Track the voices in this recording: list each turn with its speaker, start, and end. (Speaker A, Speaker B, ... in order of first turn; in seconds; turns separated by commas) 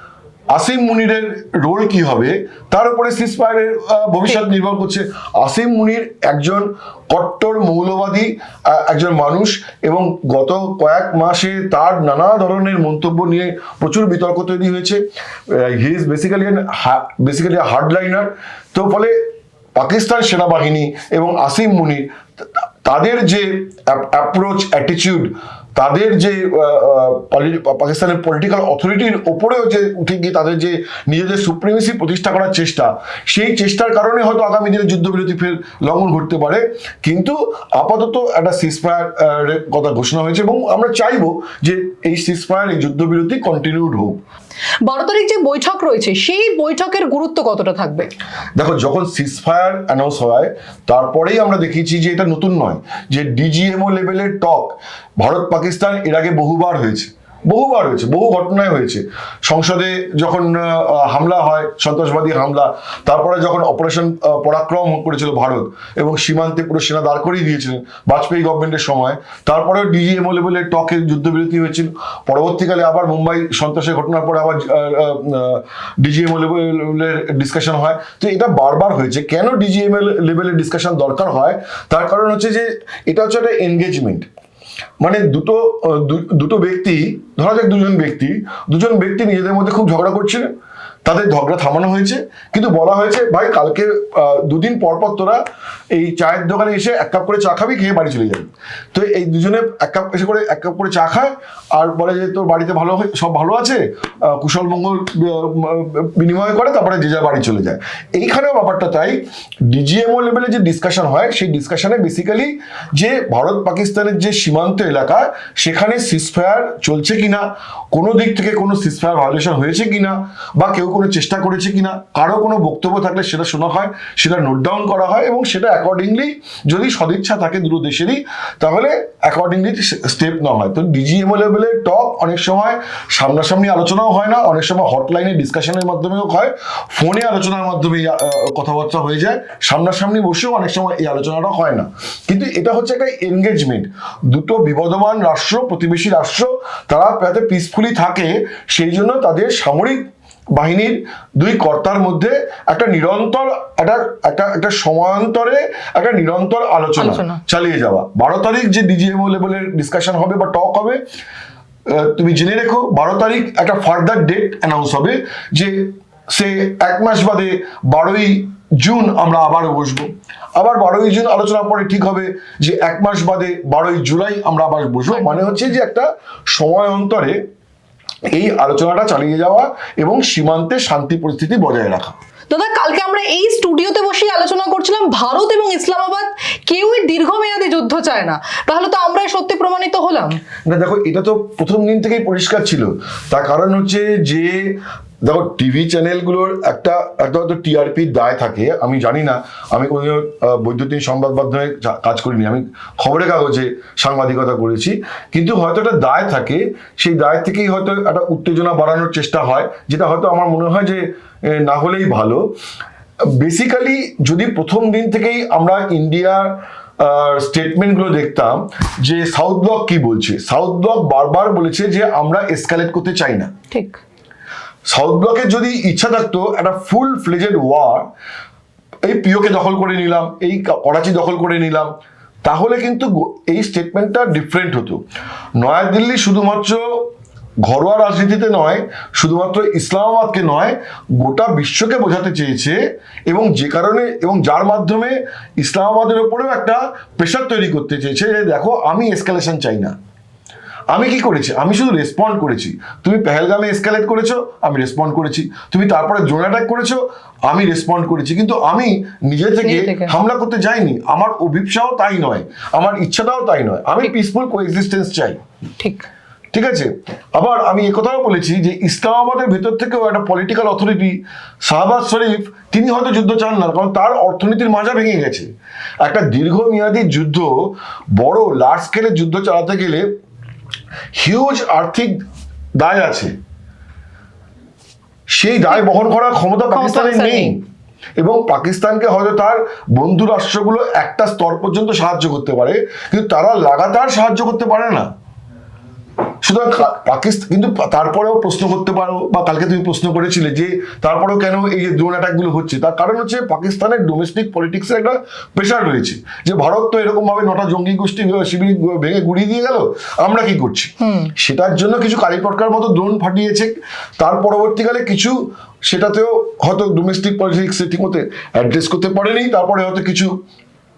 Speaker A: 0.5-19.1, Speaker A: 19.8-44.2, Speaker B: 44.9-48.1, Speaker A: 48.6-84.3, Speaker A: 85.0-90.5, Speaker A: 91.0-95.4, Speaker A: 95.9-161.0, Speaker B: 157.0-157.4, Speaker A: 161.9-177.4, Speaker B: 175.1-175.7, Speaker A: 178.3-182.1, Speaker B: 182.5-190.3, Speaker A: 190.7-212.6, Speaker A: 213.2-223.5, Speaker B: 223.7-224.0, Speaker A: 224.8-228.1, Speaker A: 229.0-231.9, Speaker A: 232.4-235.0, Speaker A: 235.6-237.1, Speaker A: 237.6-242.8, Speaker A: 243.3-249.9, Speaker A: 250.9-265.4, Speaker B: 259.6-260.1, Speaker B: 265.8-266.1, Speaker A: 266.5-275.5, Speaker A: 276.0-280.1, Speaker A: 281.1-282.2, Speaker A: 282.8-283.3, Speaker A: 285.3-287.6, Speaker B: 286.7-287.5, Speaker A: 288.2-295.1, Speaker A: 296.4-320.3, Speaker B: 311.0-311.3